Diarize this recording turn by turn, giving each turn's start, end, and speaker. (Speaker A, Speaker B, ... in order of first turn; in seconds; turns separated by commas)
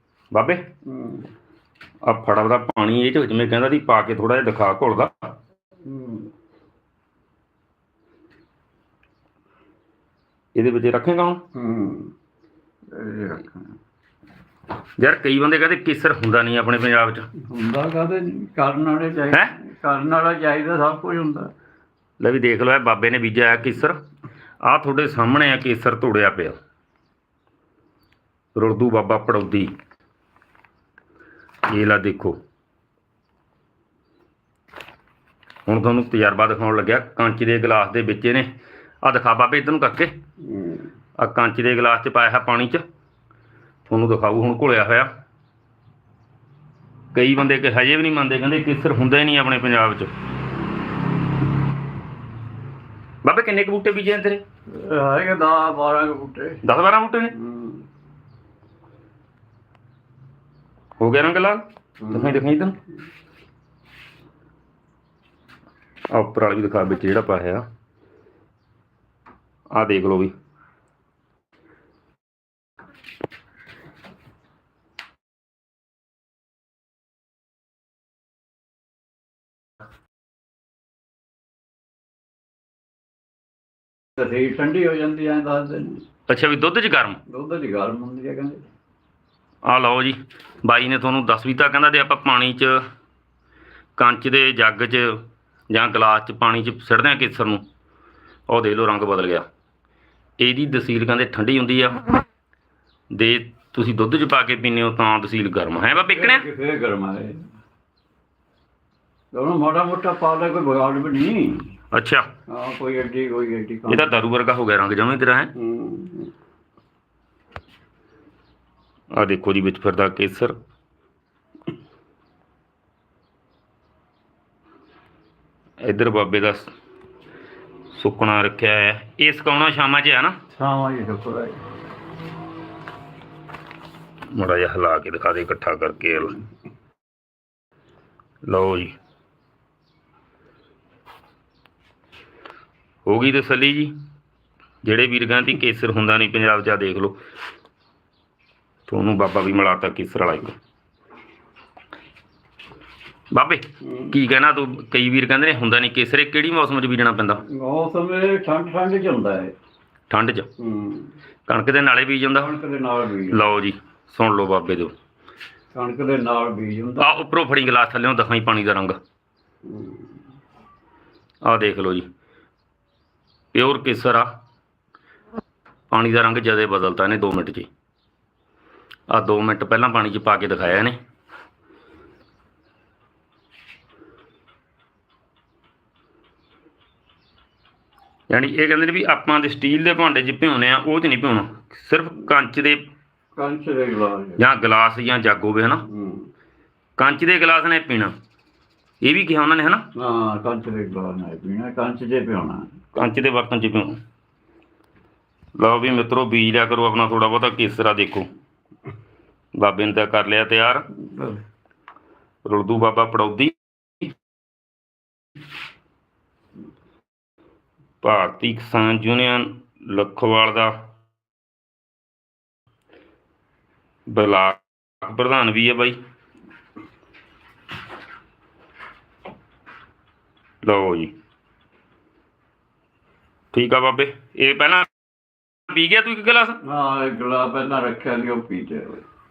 Speaker A: 0.3-0.7, Speaker B: 0.8-1.3, Speaker A: 2.0-5.1, Speaker B: 5.8-6.3, Speaker A: 10.5-11.4, Speaker B: 11.5-12.1, Speaker B: 12.9-13.7, Speaker A: 15.0-17.3, Speaker B: 17.5-21.5, Speaker A: 22.2-24.0, Speaker A: 24.6-26.6, Speaker A: 28.6-29.7, Speaker A: 31.7-32.4, Speaker A: 35.7-38.5, Speaker A: 39.0-40.1, Speaker B: 40.4-40.9, Speaker A: 41.2-42.8, Speaker A: 43.9-45.1, Speaker A: 47.1-50.1, Speaker A: 53.2-54.4, Speaker B: 54.7-56.6, Speaker A: 56.6-57.3, Speaker B: 57.3-57.9, Speaker A: 61.0-62.8, Speaker B: 62.0-62.4, Speaker A: 66.1-67.6, Speaker A: 69.7-70.3, Speaker B: 84.2-86.0, Speaker A: 86.3-87.2, Speaker B: 87.3-88.6, Speaker A: 89.6-92.8, Speaker A: 94.0-97.6, Speaker A: 98.5-99.4, Speaker A: 100.4-102.0, Speaker A: 103.1-106.4, Speaker B: 106.1-107.4, Speaker B: 109.3-111.7, Speaker A: 111.9-112.3, Speaker B: 112.5-114.1, Speaker A: 113.9-115.5, Speaker B: 115.5-116.3, Speaker A: 119.1-120.6, Speaker A: 125.8-126.7, Speaker A: 127.9-130.4, Speaker B: 130.5-131.6, Speaker A: 134.3-136.4, Speaker A: 138.5-138.9, Speaker A: 143.1-143.9, Speaker A: 144.8-147.2, Speaker A: 148.9-150.6, Speaker A: 153.3-157.4, Speaker B: 153.9-154.1, Speaker B: 157.5-159.5, Speaker A: 160.1-160.5, Speaker B: 160.6-161.1, Speaker A: 161.5-162.5, Speaker B: 162.4-163.5, Speaker A: 163.3-164.9, Speaker B: 165.7-167.1, Speaker A: 167.0-169.0, Speaker B: 169.6-170.1, Speaker A: 171.4-172.1, Speaker A: 173.5-174.3, Speaker A: 175.9-177.7, Speaker A: 179.1-181.0, Speaker A: 188.3-192.8, Speaker B: 193.3-194.4, Speaker A: 194.4-195.8, Speaker B: 195.9-196.3, Speaker A: 197.0-198.1, Speaker A: 199.0-199.8, Speaker B: 199.9-202.7, Speaker A: 202.9-204.0, Speaker A: 205.6-208.3, Speaker A: 209.6-210.9, Speaker B: 211.1-211.4, Speaker A: 212.4-214.1, Speaker A: 218.0-220.7, Speaker A: 224.1-226.0, Speaker A: 230.6-231.1, Speaker A: 233.5-234.9, Speaker A: 235.7-236.6, Speaker B: 236.6-239.0